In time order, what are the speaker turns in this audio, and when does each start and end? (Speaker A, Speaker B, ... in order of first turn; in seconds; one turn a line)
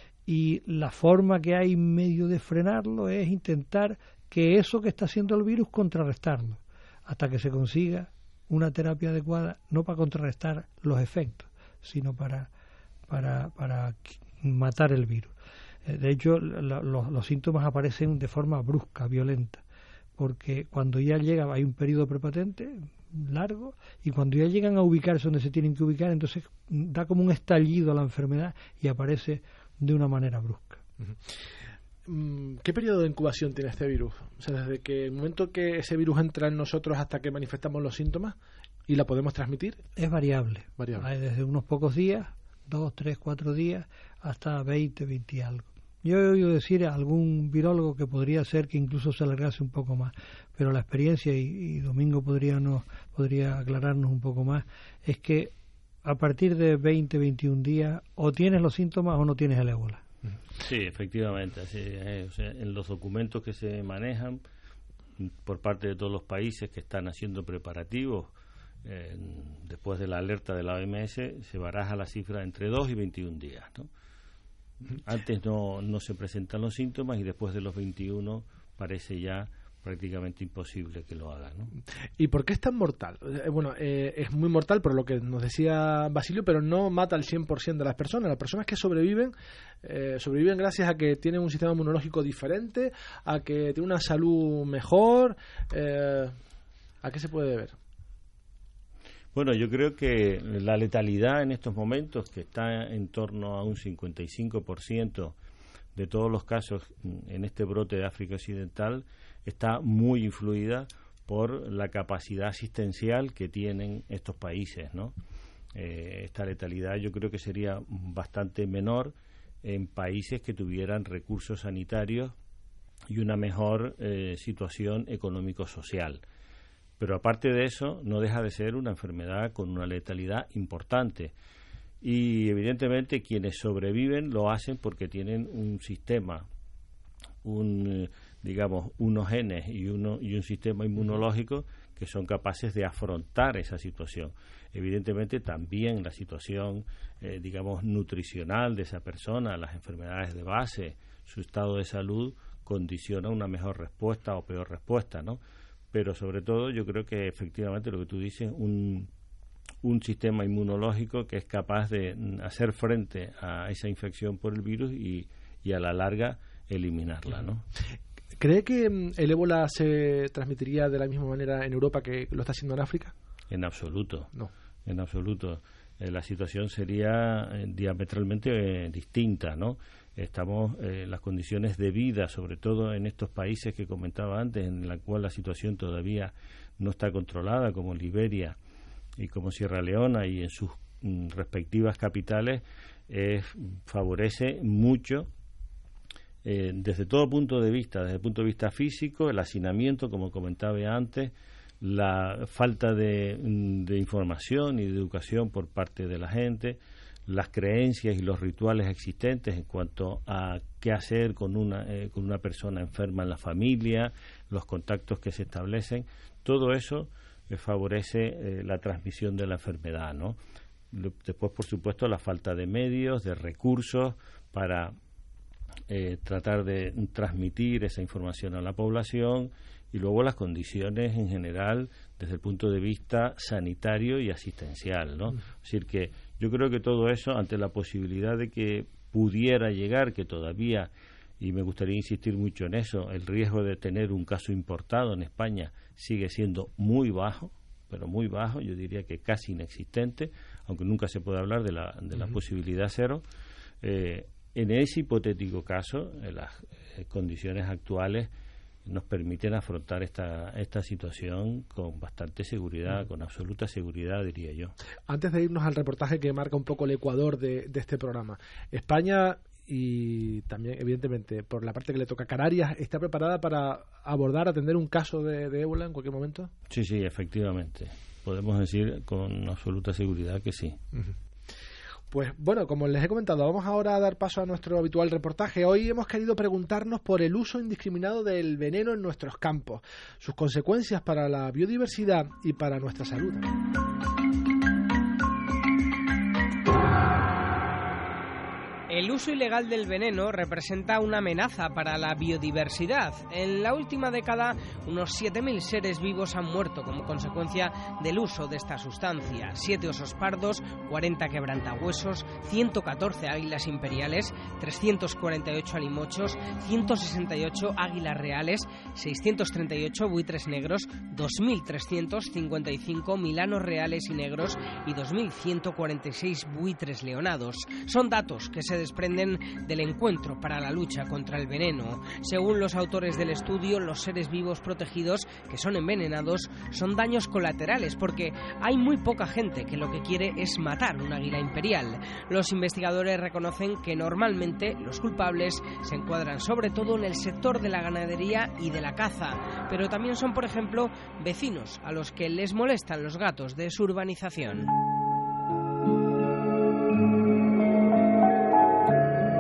Speaker A: 0.3-12.5
Speaker A: 13.1-15.3
Speaker A: 15.8-19.6
Speaker A: 20.2-30.8
Speaker B: 32.1-38.4
Speaker B: 38.9-39.8
Speaker A: 40.0-55.5
Speaker B: 40.8-41.1
Speaker A: 56.0-60.0
Speaker C: 60.6-64.4
Speaker C: 65.2-68.3
Speaker C: 68.8-73.9
Speaker C: 74.9-81.7
Speaker B: 82.2-96.4
Speaker B: 97.0-97.8
Speaker C: 99.3-105.3
Speaker C: 106.0-115.2
Speaker C: 115.7-122.3
Speaker C: 123.1-126.2
Speaker C: 127.0-131.3
Speaker C: 132.0-136.5
Speaker C: 137.4-155.4
Speaker C: 155.9-159.1
Speaker C: 159.8-167.7
Speaker B: 168.4-173.1
Speaker C: 173.5-174.3
Speaker C: 174.9-188.6
Speaker C: 189.2-195.3
Speaker C: 196.4-220.4
Speaker C: 220.9-224.9
Speaker C: 225.9-253.2
Speaker C: 253.8-258.3
Speaker C: 258.9-264.7
Speaker B: 265.1-276.5
Speaker C: 276.7-280.8
Speaker B: 282.1-293.5
Speaker D: 298.9-354.7